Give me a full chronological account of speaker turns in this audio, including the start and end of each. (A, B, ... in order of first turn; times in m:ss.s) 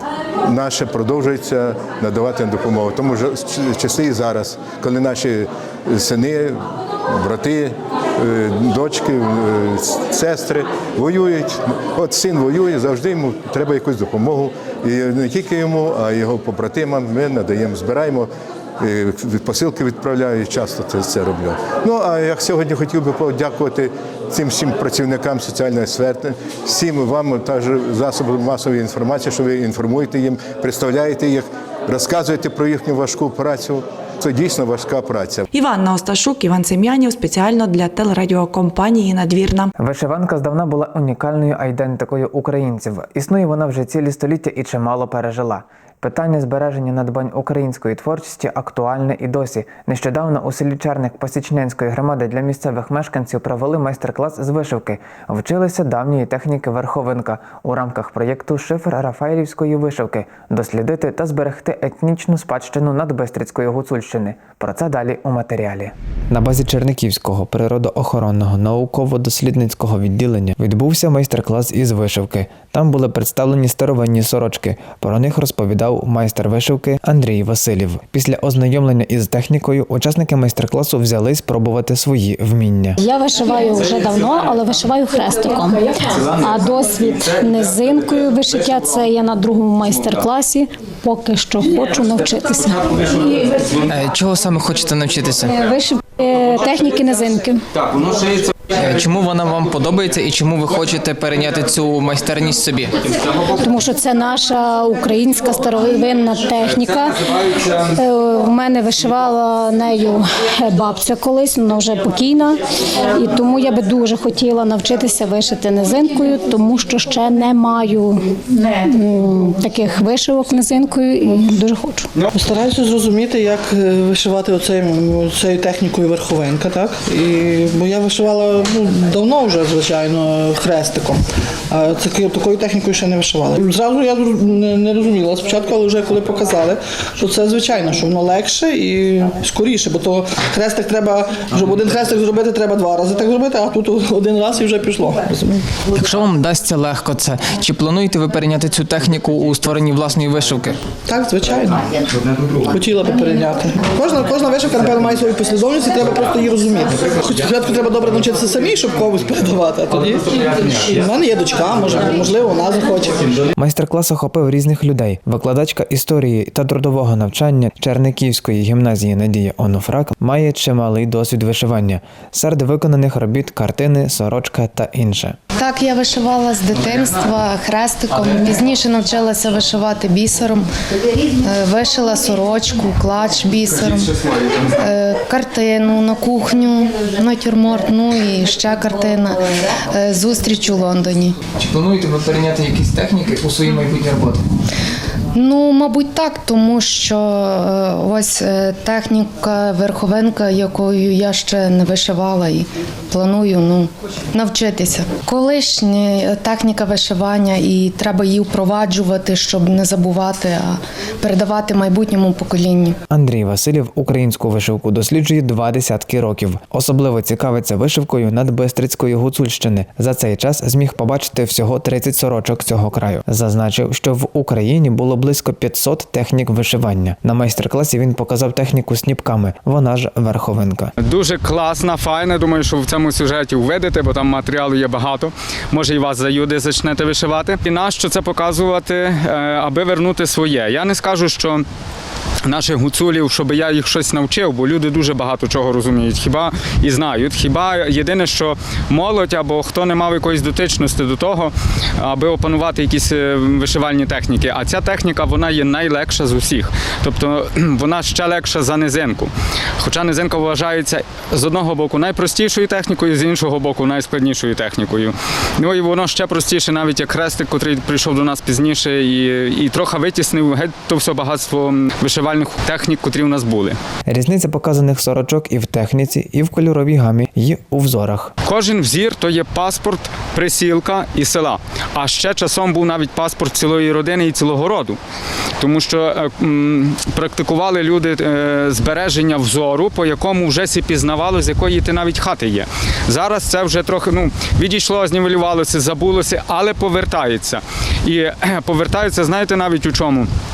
0:00.4-0:35.4 A
0:35.5-0:39.7 B
0:39.8-1:23.0 C
1:23.0-1:33.5 D
1:33.8-1:35.5 E
1:35.5-1:37.6 D
1:38.7-1:43.0 E
1:43.4-2:02.1 D
2:02.3-2:25.6 F
2:25.9-2:30.8 E
2:31.1-2:31.9 F
2:32.6-2:43.4 F
2:43.6-2:55.4 C
2:55.6-3:00.7 G
3:01.3-3:11.4 G
3:11.5-3:14.4 E
3:15.3-3:33.0 G
3:33.1-3:50.9 C
3:51.0-4:01.6 H
4:02.4-4:33.8 H
4:34.1-4:38.3 C
4:38.4-4:45.0 H
4:45.6-5:00.3 H